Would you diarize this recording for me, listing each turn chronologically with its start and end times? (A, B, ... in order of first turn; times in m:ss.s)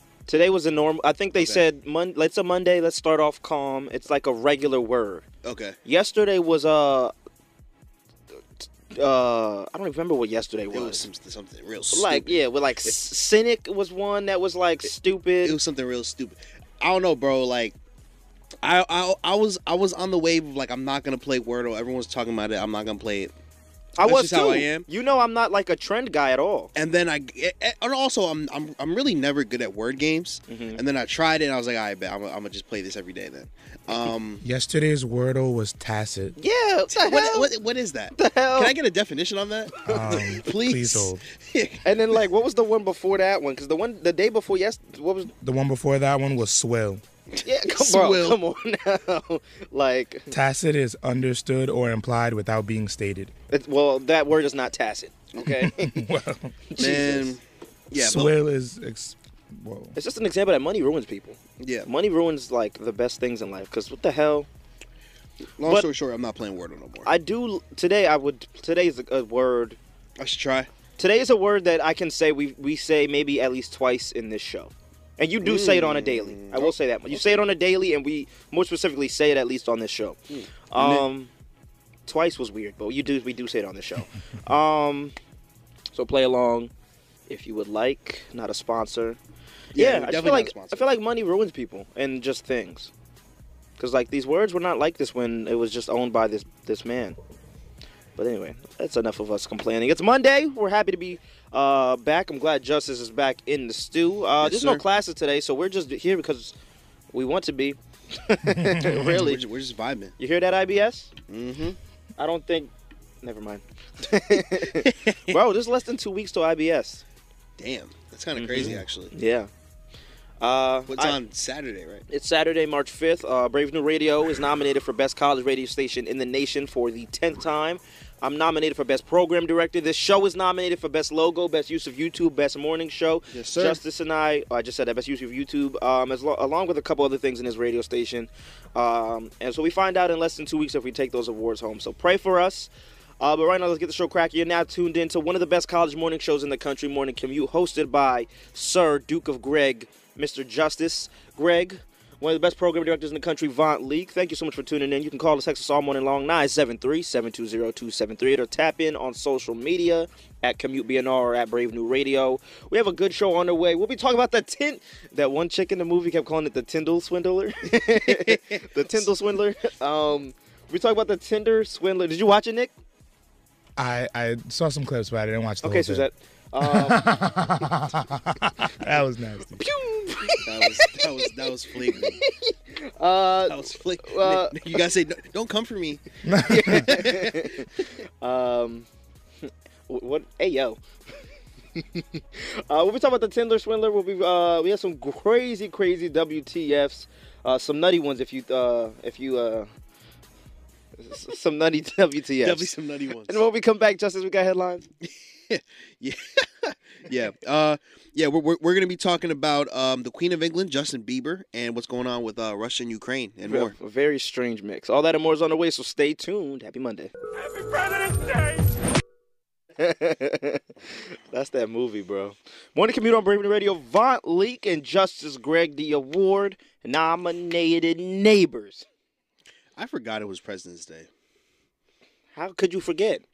0:00.3-0:05.2 A
0:01.4-0:01.6 B
0:05.4-0:05.8 B
0:05.8-0:07.1 A
0:08.9-0:11.0 A
0:10.7-0:12.4 B
0:11.9-0:15.6 A
0:15.4-0:17.7 B
0:18.6-0:23.3 B
0:24.0-0:26.7 A
0:24.0-0:24.9 B
0:26.7-0:34.4 B
0:30.5-0:30.8 A
0:34.4-0:36.3 C
0:36.4-0:37.5 A
0:36.9-0:42.0 B
0:38.1-0:38.7 A
0:39.8-0:40.2 A
0:39.8-0:41.2 C
0:41.8-0:45.3 A
0:45.4-0:47.0 C
0:47.3-0:48.4 B
0:47.4-0:50.3 A
0:50.3-0:53.3 C
0:53.5-0:56.0 A
0:55.6-0:56.5 C
0:56.7-0:57.4 A
0:56.8-0:58.3 B
0:58.0-1:00.0 C
0:59.9-1:04.5 A
1:01.6-1:01.9 B
1:05.6-1:07.1 B
1:05.6-1:05.9 A
1:07.0-1:09.8 A
1:10.2-1:10.7 B
1:11.0-1:20.2 A
1:15.4-1:17.4 B
1:20.3-1:21.0 B
1:20.7-1:21.3 A
1:22.0-1:25.1 A
1:25.9-1:26.7 A
1:27.3-1:29.2 A
1:29.7-1:30.9 B
1:29.8-1:32.9 A
1:33.8-1:37.2 A
1:38.2-1:46.5 A
1:44.4-1:44.8 B
1:47.1-1:49.4 A
1:48.5-1:49.1 C
1:48.8-1:50.2 B
1:50.2-1:51.1 A
1:51.3-1:51.8 B
1:52.2-1:57.0 A
1:54.6-1:55.4 B
1:57.6-1:59.1 B
1:58.3-1:59.5 A
2:00.4-2:01.2 A
2:00.9-2:02.0 B
2:02.1-2:22.7 A
2:13.3-2:13.8 B
2:23.2-2:52.7 A
2:47.9-2:49.1 B
2:53.8-2:56.0 C
2:55.6-2:57.7 A
2:56.6-2:59.6 C
2:59.6-3:01.3 A
3:00.4-3:02.2 B
3:01.9-3:04.8 A
3:03.5-3:07.6 B
3:06.2-3:06.9 C
3:06.4-3:08.8 A
3:09.9-3:10.8 A
3:11.7-3:19.7 A
3:21.0-3:22.7 A
3:22.4-3:23.4 B
3:23.3-3:24.8 A
3:25.0-3:33.7 B
3:33.4-3:38.5 A
3:39.8-3:48.8 A
3:49.8-3:51.1 B
3:52.3-3:53.2 A